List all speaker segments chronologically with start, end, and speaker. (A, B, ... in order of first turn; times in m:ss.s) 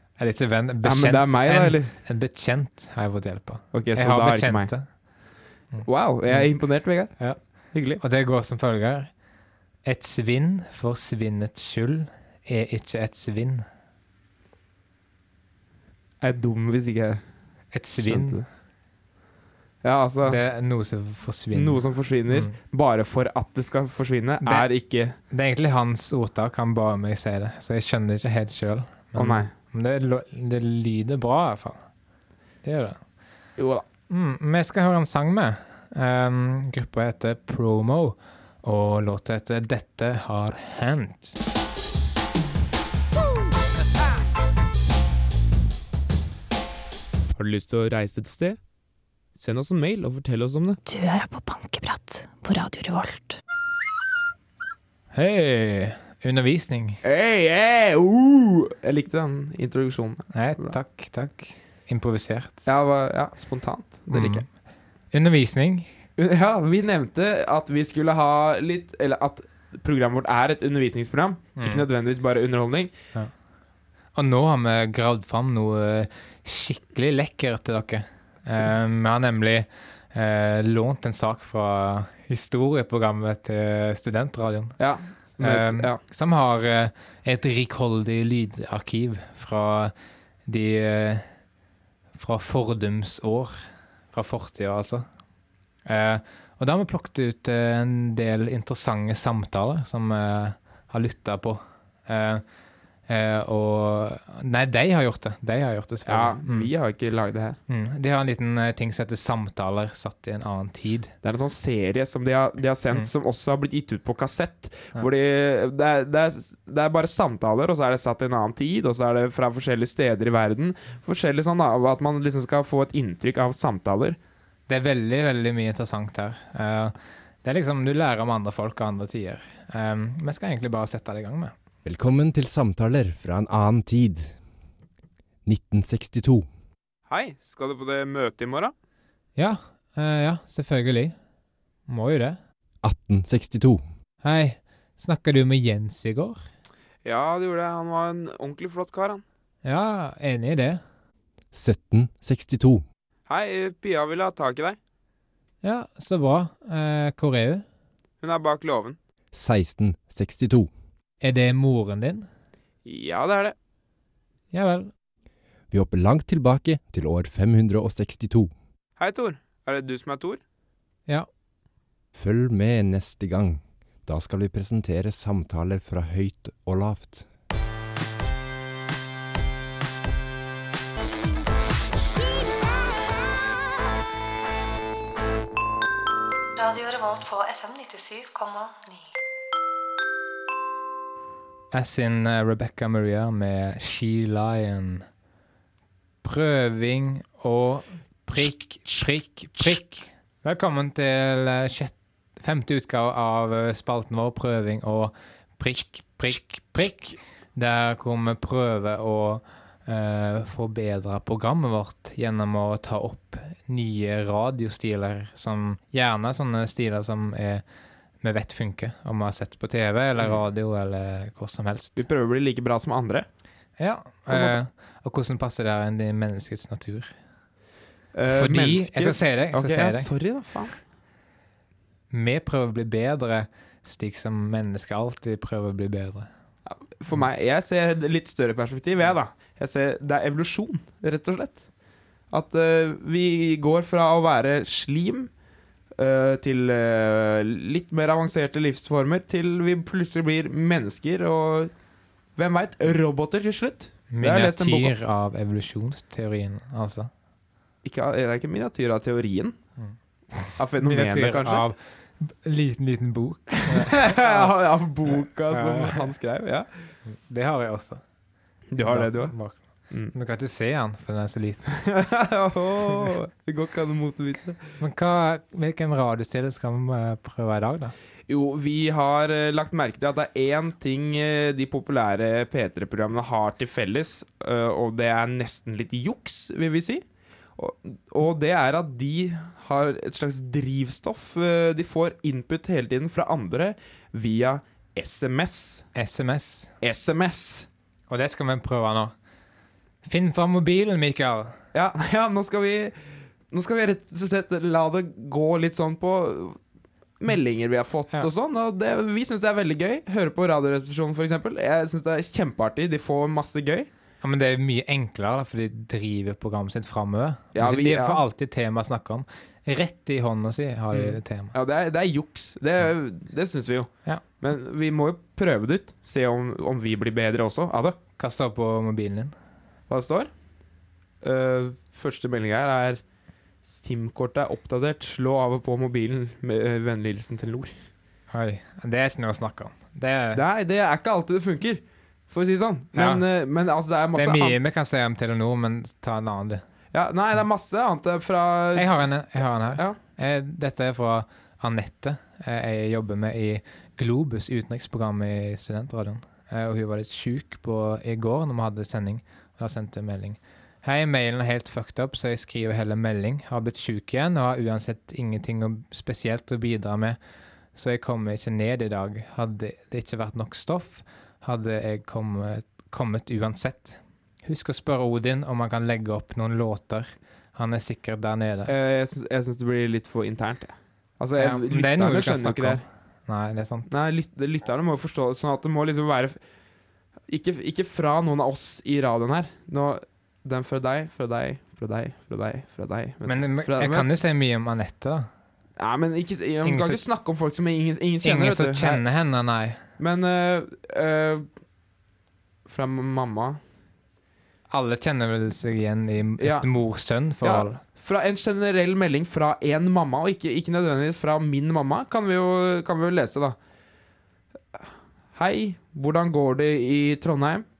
0:00.2-0:05.2 A
0:00.8-0:01.9 B
0:03.7-0:04.7 B
0:05.7-0:09.2 A
0:05.8-0:08.0 B
0:09.8-0:13.6 A
0:16.2-0:17.2 B
0:17.7-0:18.4 A
0:18.0-0:18.5 B
0:19.8-0:20.4 B
0:20.2-0:22.5 A
0:21.5-0:25.1 B
0:24.4-0:24.7 A
0:25.3-0:31.9 A
0:29.2-0:29.5 B
0:32.6-0:33.0 A
0:33.6-0:33.8 B
0:34.1-0:41.4 A
0:47.4-0:48.6 B
0:49.3-0:50.8 B
0:50.8-0:53.4 C
0:55.1-0:57.0 A
0:57.0-1:00.8 B
1:00.3-1:02.7 A
1:02.6-1:04.4 B
1:04.1-1:04.5 A
1:05.1-1:05.9 A
1:06.2-1:12.9 B
1:11.6-1:11.8 A
1:14.1-1:29.9 A
1:24.8-1:26.0 B
1:30.4-1:31.3 A
1:32.1-1:33.6 A
1:34.1-1:35.0 A
1:35.8-1:42.4 A
1:43.1-1:46.7 A
1:46.0-1:47.6 B
1:47.7-1:51.1 A
1:51.2-2:04.2 B
2:04.7-2:11.5 A
2:11.8-2:14.4 D
2:15.4-2:16.5 D
2:17.1-2:18.7 B
2:19.4-2:21.1 A
2:21.9-2:22.4 A
2:22.8-2:23.8 D
2:24.2-2:26.4 A
2:27.0-2:29.2 B
2:29.6-2:30.8 A
2:31.5-2:32.8 D
2:33.3-2:34.8 B
2:35.6-2:37.6 A
2:38.2-2:39.0 B
2:39.3-2:40.7 D
2:41.2-2:42.3 A
2:42.8-2:43.5 B
2:44.5-2:44.9 A
2:45.7-2:48.5 D
2:49.0-2:50.4 B
2:52.1-2:57.3 D
3:06.6-3:09.0 C
3:11.7-3:15.0 A
3:16.2-3:37.6 A
3:38.2-3:42.0 A
3:42.0-3:43.3 B
3:43.8-3:47.1 A
3:44.3-3:44.6 B
3:48.1-3:50.8 B
3:48.3-3:50.1 A
3:52.1-3:56.3 A
3:56.6-4:01.7 B
4:02.3-4:05.3 B
4:06.0-4:11.7 B
4:12.4-4:14.9 B
4:14.1-4:17.1 A
4:17.8-4:19.6 B
4:19.8-4:24.5 A
4:20.6-4:21.6 B
4:23.6-4:26.9 B
4:25.5-4:26.1 A
4:27.1-4:28.0 A
4:28.7-4:29.4 B
4:28.8-4:31.8 A
4:31.8-4:34.8 B
4:34.8-4:37.9 A
4:38.3-4:47.0 B
4:47.6-4:55.9 B
4:56.0-4:56.7 A
4:56.8-4:57.7 B
4:58.1-4:59.1 A
5:00.0-5:01.6 A
5:01.7-5:03.0 B
5:03.5-5:06.6 B
5:07.2-5:13.9 B
5:14.2-5:21.5 A
5:17.5-5:18.2 B
5:20.9-5:28.0 B
5:28.2-5:29.3 A
5:29.9-5:30.3 B
5:31.2-5:33.0 B
5:33.6-5:37.7 B
5:38.3-5:40.4 A
5:40.3-5:44.6 B
5:43.0-5:43.2 A
5:44.1-5:46.6 A
5:46.9-5:49.1 B
5:48.7-6:07.2 A
6:07.7-6:18.7 A
6:18.6-6:22.8 B
6:21.4-6:23.9 A
6:23.9-6:26.4 B
6:27.2-6:34.1 B
6:33.2-6:35.3 A
6:35.8-6:39.0 B
6:36.6-6:37.0 A
6:38.2-6:39.8 A
6:40.0-6:41.5 B
6:42.6-6:43.6 B
6:44.7-6:47.8 A
6:46.4-6:46.7 B
6:47.4-6:53.6 B
6:55.3-6:57.7 B